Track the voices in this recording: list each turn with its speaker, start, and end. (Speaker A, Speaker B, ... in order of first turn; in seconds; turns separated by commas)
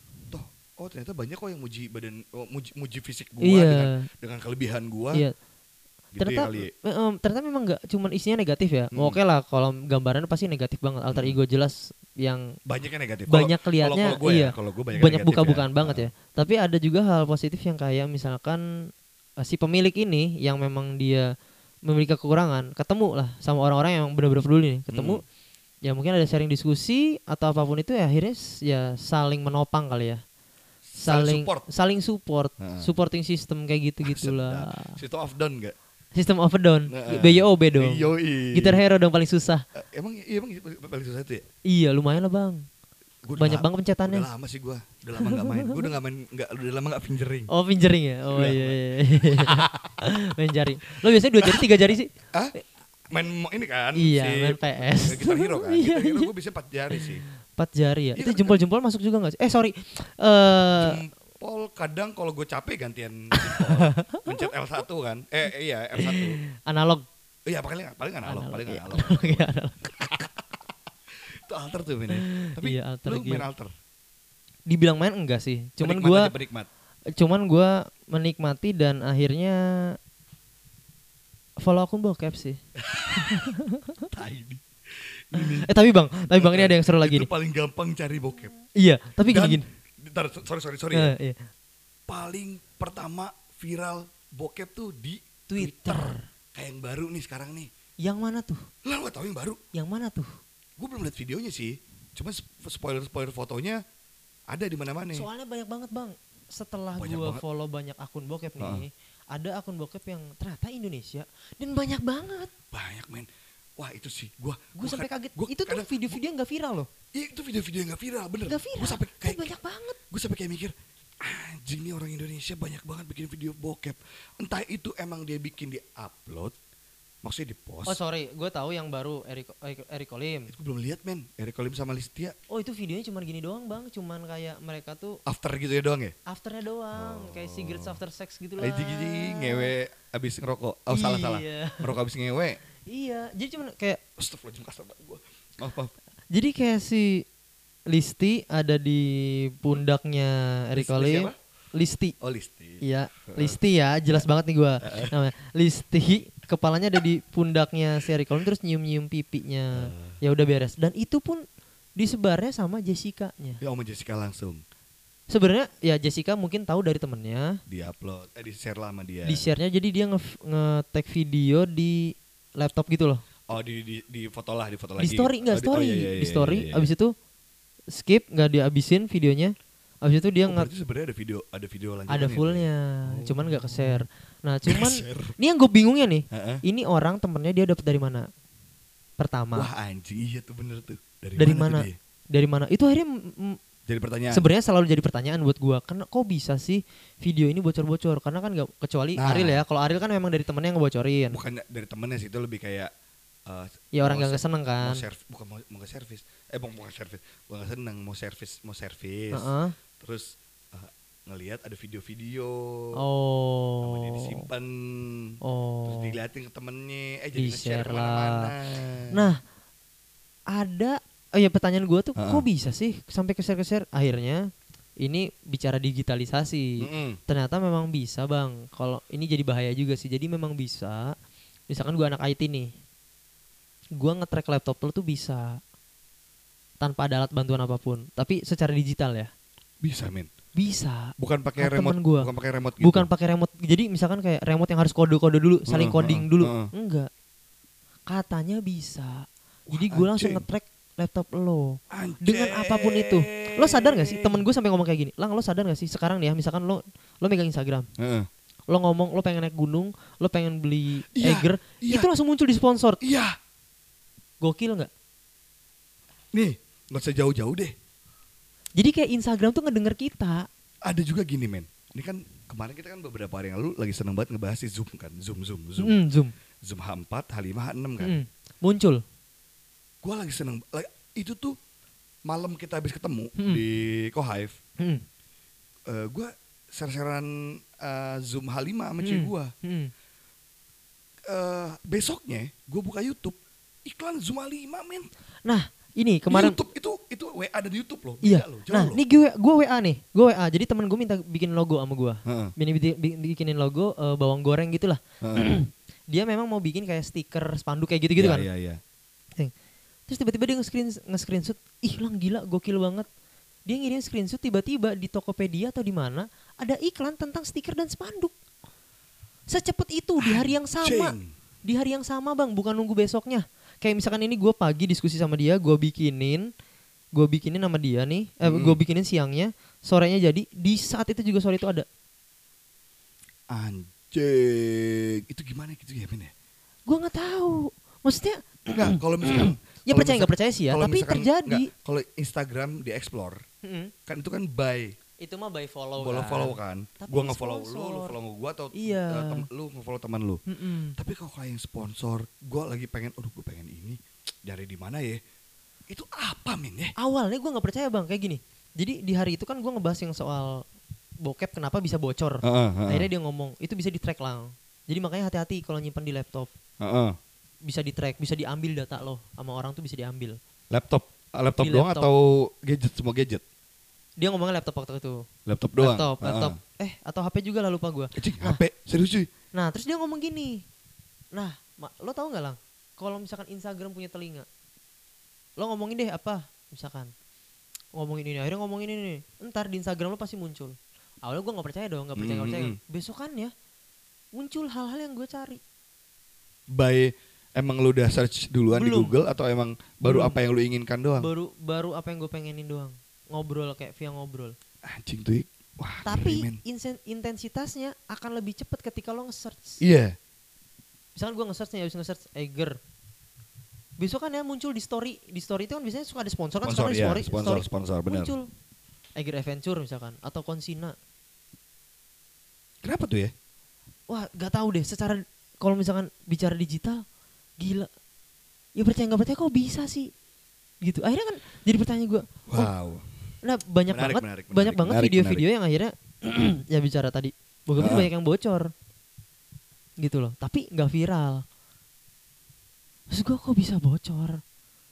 Speaker A: 0.3-5.2, Speaker B: 3.4-4.1, Speaker A: 6.1-6.7, Speaker B: 6.2-12.6, Speaker A: 8.9-9.2, Speaker A: 12.7-16.1, Speaker B: 13.3-18.9, Speaker B: 19.4-21.3, Speaker B: 21.9-25.2, Speaker A: 24.9-25.2, Speaker B: 25.8-30.2, Speaker A: 30.9-31.6, Speaker B: 31.0-35.0, Speaker A: 32.6-32.9, Speaker A: 34.0-35.7, Speaker B: 36.1-39.6, Speaker A: 36.9-38.8, Speaker A: 39.7-41.4, Speaker B: 41.6-42.6, Speaker A: 43.2-47.5, Speaker B: 43.4-44.3, Speaker B: 45.2-45.9, Speaker B: 47.5-52.6, Speaker A: 48.3-50.1, Speaker A: 53.1-57.2, Speaker B: 54.0-56.3, Speaker B: 56.9-61.0, Speaker A: 58.1-58.6, Speaker A: 60.8-66.4, Speaker B: 63.3-64.5, Speaker B: 66.0-67.0, Speaker A: 67.5-70.4, Speaker B: 68.2-69.9, Speaker A: 71.2-73.7, Speaker B: 72.1-73.5, Speaker B: 74.7-76.3, Speaker A: 75.8-76.7, Speaker B: 77.1-80.0, Speaker B: 81.6-82.6, Speaker A: 82.8-83.5, Speaker B: 83.1-84.1, Speaker A: 84.1-85.7, Speaker B: 85.3-87.3, Speaker A: 86.3-88.5, Speaker B: 88.8-89.7, Speaker A: 89.3-91.1, Speaker B: 90.9-91.5, Speaker A: 92.1-97.7, Speaker B: 95.5-96.2, Speaker B: 98.0-98.6, Speaker A: 98.8-99.6, Speaker B: 99.7-100.3, Speaker A: 100.8-103.8, Speaker A: 104.5-105.3, Speaker B: 105.1-112.5, Speaker A: 107.0-107.4, Speaker A: 108.6-108.8, Speaker A: 112.7-116.2, Speaker B: 114.8-116.9, Speaker A: 117.1-119.5, Speaker B: 118.5-120.0, Speaker A: 120.1-126.5, Speaker A: 127.2-128.0, Speaker B: 127.8-130.5, Speaker A: 130.5-132.3, Speaker B: 132.5-135.2, Speaker A: 135.2-136.1, Speaker B: 136.3-139.7, Speaker A: 136.9-138.0, Speaker A: 138.6-142.6, Speaker B: 140.9-141.9, Speaker B: 142.9-144.0, Speaker A: 144.2-145.9, Speaker B: 146.3-147.2, Speaker B: 147.9-152.1, Speaker A: 150.7-151.3, Speaker A: 152.2-153.6, Speaker B: 152.8-161.4, Speaker A: 154.8-155.2, Speaker A: 159.7-160.2, Speaker B: 162.0-163.6, Speaker A: 163.6-164.6, Speaker B: 165.3-167.6, Speaker A: 167.7-169.4, Speaker B: 169.3-173.2, Speaker A: 173.5-176.9, Speaker B: 175.0-177.1, Speaker B: 177.9-180.7, Speaker A: 180.4-184.0, Speaker B: 182.1-188.3, Speaker A: 184.7-185.3, Speaker A: 186.3-186.6, Speaker B: 189.2-189.7, Speaker A: 189.5-191.9, Speaker B: 191.4-193.6, Speaker A: 193.9-194.4, Speaker B: 194.3-201.4, Speaker A: 199.2-199.6, Speaker A: 201.3-202.9, Speaker A: 203.5-212.9, Speaker B: 203.9-205.0, Speaker B: 209.3-209.7, Speaker B: 212.9-214.5, Speaker A: 213.8-219.2, Speaker B: 215.4-216.2, Speaker B: 217.3-218.5, Speaker B: 219.1-219.4, Speaker B: 220.5-224.4, Speaker A: 222.2-222.4, Speaker B: 225.0-231.1, Speaker A: 226.8-227.2, Speaker B: 231.7-232.7, Speaker B: 234.0-235.6, Speaker B: 236.8-239.3, Speaker A: 239.8-240.3, Speaker B: 240.6-242.3, Speaker A: 241.2-243.1, Speaker B: 242.8-247.1, Speaker A: 245.7-246.7, Speaker B: 248.1-257.9, Speaker A: 249.7-250.4, Speaker A: 251.9-254.4, Speaker A: 258.0-258.3, Speaker B: 258.7-263.0, Speaker A: 261.1-262.1, Speaker A: 263.0-263.3, Speaker B: 264.4-264.9, Speaker A: 266.3-267.7, Speaker B: 268.8-270.5, Speaker A: 270.8-275.9, Speaker B: 275.8-276.3, Speaker A: 276.6-278.1, Speaker B: 278.0-279.0, Speaker A: 280.0-281.6, Speaker A: 282.3-284.6, Speaker B: 283.4-283.6, Speaker A: 285.9-289.5, Speaker B: 289.0-289.9, Speaker A: 291.3-295.1, Speaker B: 295.4-296.6, Speaker A: 296.3-299.0, Speaker B: 298.2-308.4, Speaker A: 302.2-302.5, Speaker A: 305.2-305.5, Speaker A: 308.2-308.8, Speaker B: 310.1-313.1, Speaker B: 313.7-318.4, Speaker B: 319.5-326.5, Speaker A: 320.2-321.3, Speaker B: 327.1-331.9, Speaker A: 328.4-328.8, Speaker A: 333.5-336.3, Speaker B: 336.9-341.7, Speaker A: 338.7-343.4, Speaker B: 343.6-343.9, Speaker A: 344.1-344.9, Speaker B: 345.2-348.1, Speaker A: 346.0-350.4, Speaker B: 348.7-349.4, Speaker B: 350.5-350.9, Speaker A: 350.9-355.2, Speaker A: 355.9-356.9, Speaker B: 357.0-360.6, Speaker B: 361.2-366.5, Speaker A: 362.4-363.1, Speaker A: 366.8-367.2, Speaker B: 367.6-370.4, Speaker A: 370.7-373.4, Speaker B: 371.6-372.1, Speaker B: 374.2-375.2, Speaker A: 375.4-376.6, Speaker B: 375.8-378.6, Speaker A: 378.1-379.3, Speaker B: 379.5-380.6, Speaker B: 381.3-384.5, Speaker B: 385.6-387.1, Speaker B: 387.9-393.5, Speaker A: 392.2-392.8, Speaker B: 394.3-395.6, Speaker A: 396.7-401.3, Speaker B: 398.7-399.1, Speaker B: 400.0-400.4, Speaker B: 401.2-404.5, Speaker A: 404.8-406.6, Speaker B: 406.0-409.8, Speaker A: 409.8-410.1, Speaker B: 411.1-412.8, Speaker B: 414.0-418.5, Speaker A: 416.6-418.3, Speaker B: 419.2-420.9, Speaker A: 422.8-423.3, Speaker B: 424.1-427.0, Speaker B: 427.6-427.9, Speaker B: 428.8-430.1, Speaker B: 430.8-432.7, Speaker A: 432.5-433.1, Speaker B: 433.4-438.7, Speaker A: 433.9-435.4, Speaker A: 437.8-438.1, Speaker B: 440.0-441.4, Speaker B: 443.1-444.4